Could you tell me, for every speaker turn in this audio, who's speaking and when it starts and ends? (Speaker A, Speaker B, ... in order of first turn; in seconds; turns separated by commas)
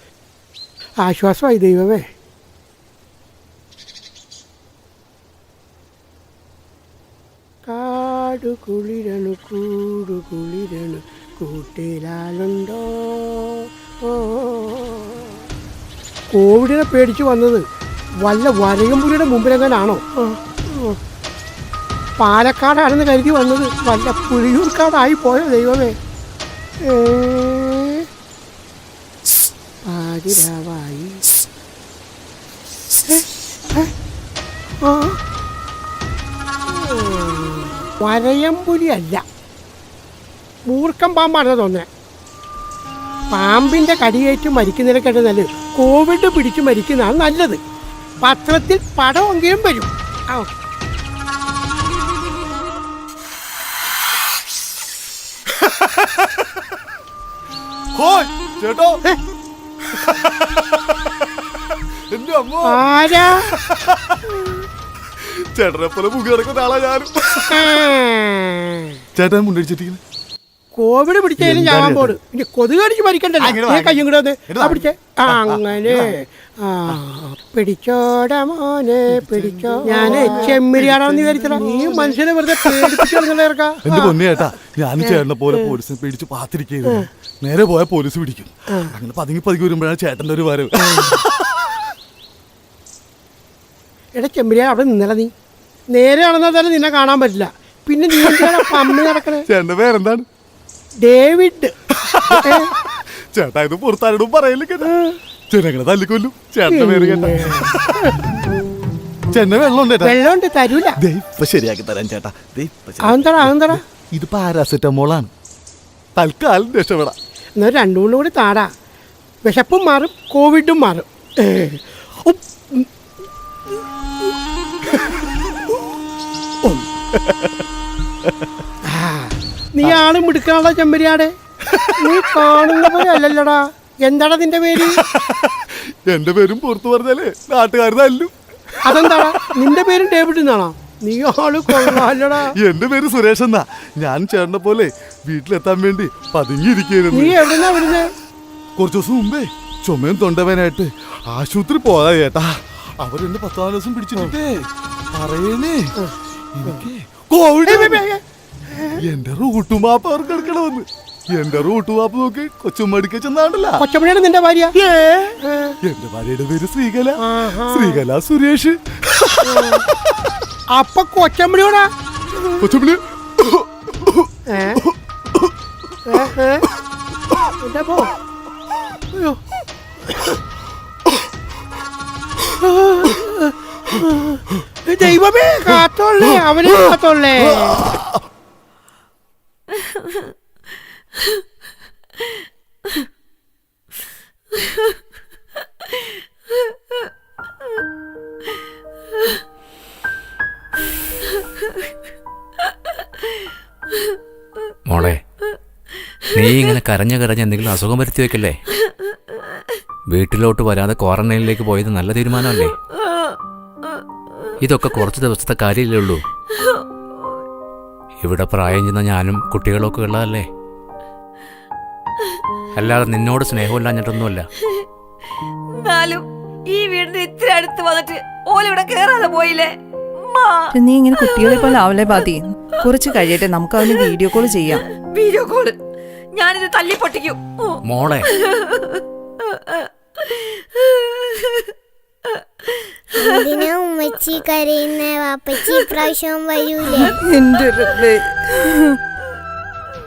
Speaker A: 1.0-2.0, Speaker A: 7.7-15.2, Speaker A: 16.3-17.6, Speaker A: 18.2-21.0, Speaker A: 22.2-25.9, Speaker A: 26.8-28.1, Speaker A: 29.8-31.2, Speaker A: 33.0-33.9, Speaker A: 34.8-35.2, Speaker A: 36.7-39.2, Speaker A: 40.7-41.9, Speaker A: 43.3-47.6, Speaker A: 48.2-50.5, Speaker B: 55.6-56.1, Speaker B: 57.9-59.0, Speaker B: 59.9-60.6, Speaker B: 62.1-64.2, Speaker A: 62.6-63.5, Speaker B: 65.2-67.8, Speaker A: 67.5-69.0, Speaker B: 69.2-70.0, Speaker A: 70.8-85.8, Speaker B: 71.4-72.2, Speaker B: 73.5-76.1, Speaker B: 79.3-83.1, Speaker B: 83.8-91.3, Speaker A: 94.1-95.3, Speaker A: 95.9-99.4, Speaker B: 98.1-100.2, Speaker A: 101.0-101.7, Speaker B: 102.0-102.7, Speaker A: 102.3-102.7, Speaker B: 103.3-104.9, Speaker B: 105.5-108.1, Speaker A: 106.7-108.2, Speaker B: 109.3-110.2, Speaker A: 110.0-111.0, Speaker B: 111.0-115.3, Speaker A: 113.0-113.8, Speaker B: 116.2-117.1, Speaker A: 117.6-118.7, Speaker A: 119.4-122.9, Speaker A: 128.8-131.3, Speaker A: 132.0-135.0, Speaker B: 134.8-138.3, Speaker A: 138.8-142.5, Speaker B: 138.8-139.3, Speaker B: 141.8-148.0, Speaker A: 147.1-148.1, Speaker B: 148.8-155.9, Speaker A: 156.0-156.8, Speaker B: 156.5-158.1, Speaker A: 157.6-158.2, Speaker B: 159.0-163.8, Speaker A: 163.8-165.8, Speaker B: 165.8-169.9, Speaker A: 167.2-168.0, Speaker A: 169.4-169.9, Speaker A: 170.7-171.9, Speaker B: 172.6-174.8, Speaker A: 174.5-174.8, Speaker A: 176.1-176.7, Speaker A: 177.6-178.1, Speaker A: 179.1-179.4, Speaker A: 182.6-187.9, Speaker B: 187.5-188.1, Speaker C: 189.8-190.2, Speaker D: 204.9-205.2, Speaker D: 206.3-208.6, Speaker D: 210.1-212.8, Speaker D: 214.6-216.2, Speaker D: 218.2-220.4, Speaker D: 222.8-224.5, Speaker C: 225.8-230.7, Speaker E: 230.7-234.8, Speaker C: 235.1-235.8, Speaker C: 236.3-241.7, Speaker D: 237.8-238.2, Speaker C: 242.7-243.7, Speaker F: 243.2-247.2, Speaker C: 245.6-246.0, Speaker E: 247.2-249.0